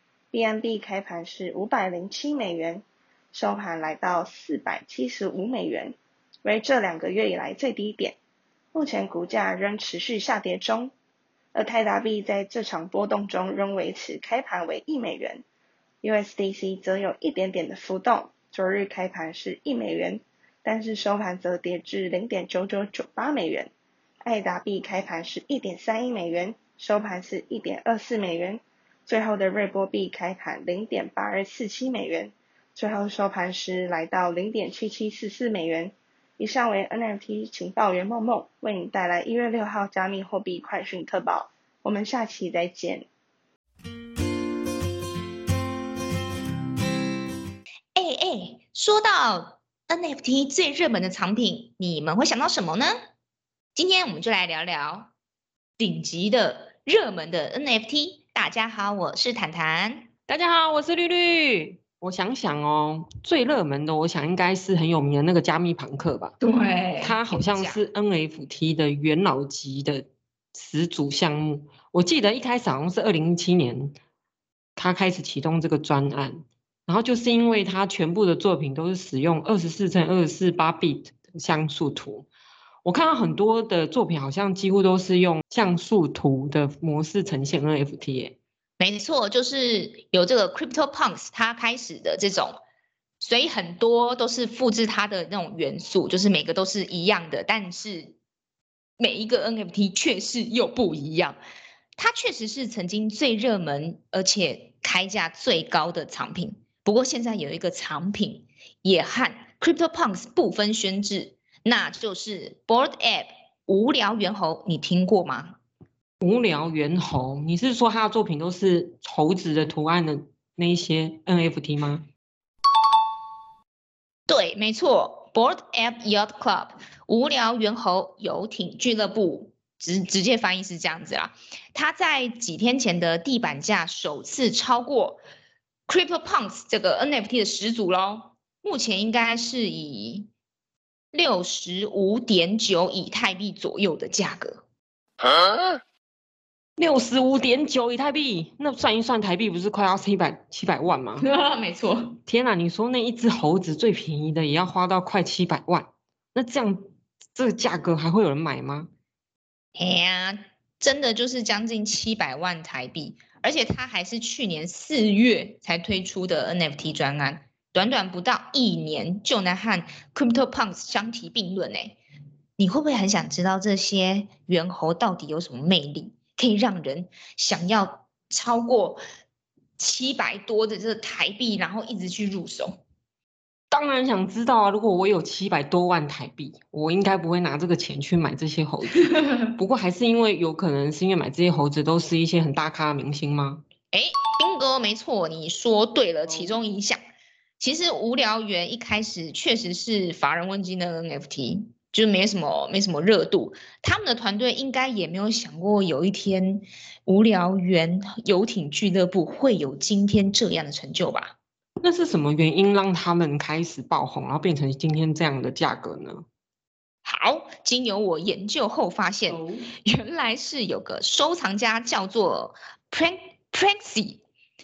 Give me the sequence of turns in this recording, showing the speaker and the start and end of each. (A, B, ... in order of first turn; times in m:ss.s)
0:00.3-0:08.2 A
0:08.7-0:10.9 A
0:11.5-0:15.4 A
0:16.0-0:23.7 A
0:24.2-0:43.1 A
0:48.0-0:53.0 B
0:53.8-0:55.1 B
0:55.8-1:00.1 B
1:00.3-1:06.3 C
1:06.4-1:07.8 B
1:07.0-1:14.0 C
1:14.8-1:22.3 C
1:22.8-1:28.4 C
1:28.8-1:32.6 B
1:33.2-1:38.2 B
1:39.0-1:41.4 B
1:42.0-1:55.6 B
1:56.2-2:02.0 C
2:04.3-2:15.2 B
2:15.9-2:20.3 B
2:21.1-2:24.6 B
2:26.8-2:31.2 C
2:31.2-2:32.2 B
2:32.2-2:38.9 C
2:39.8-2:52.0 B
2:52.6-2:59.0 B
2:59.8-3:02.8 B
3:03.7-3:13.6 C
3:09.0-3:09.5 B
3:13.9-3:17.0 B
3:16.3-3:16.5 C
3:17.6-3:31.4 B
3:31.8-3:36.2 C
3:37.0-3:44.2 B
3:39.3-3:39.7 C